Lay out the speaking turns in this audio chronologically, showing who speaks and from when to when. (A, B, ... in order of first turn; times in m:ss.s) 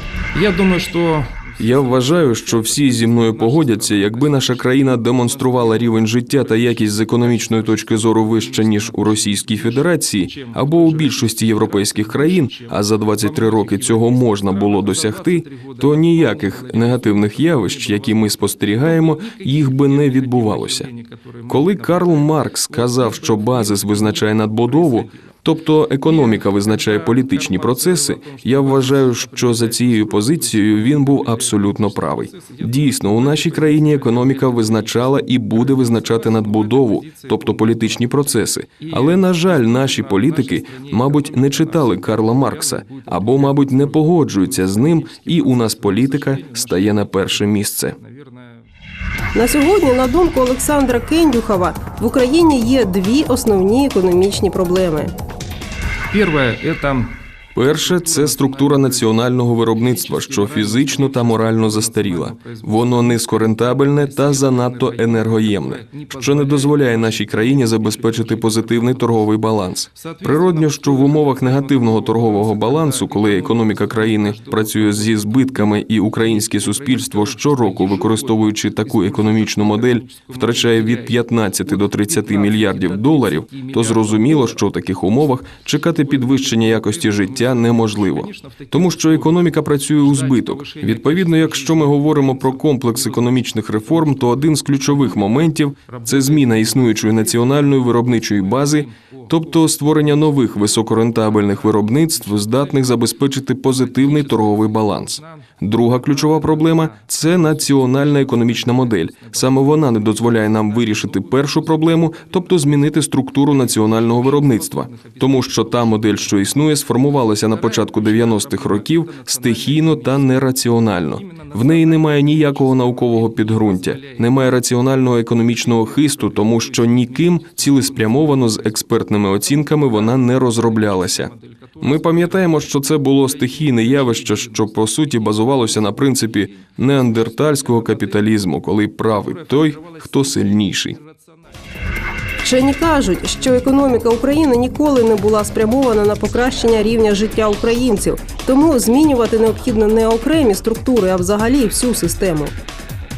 0:00.3-0:05.9 A
0:01.6-0:20.9 B
0:06.4-0:25.4 A
0:21.5-0:47.9 B
0:26.0-0:38.0 A
0:38.8-0:47.4 A
0:48.0-0:48.6 A
0:49.3-0:55.1 C
0:56.1-0:57.2 A
0:57.5-2:21.0 B
0:57.8-0:59.1 A
0:59.7-1:09.3 A
1:09.9-1:24.6 A
1:25.9-1:40.2 A
1:41.3-1:43.2 A
1:43.7-1:52.7 A
1:53.6-1:56.6 A
1:57.4-2:04.5 A
2:05.5-2:18.5 A
2:19.3-2:20.6 A
2:22.4-2:32.5 C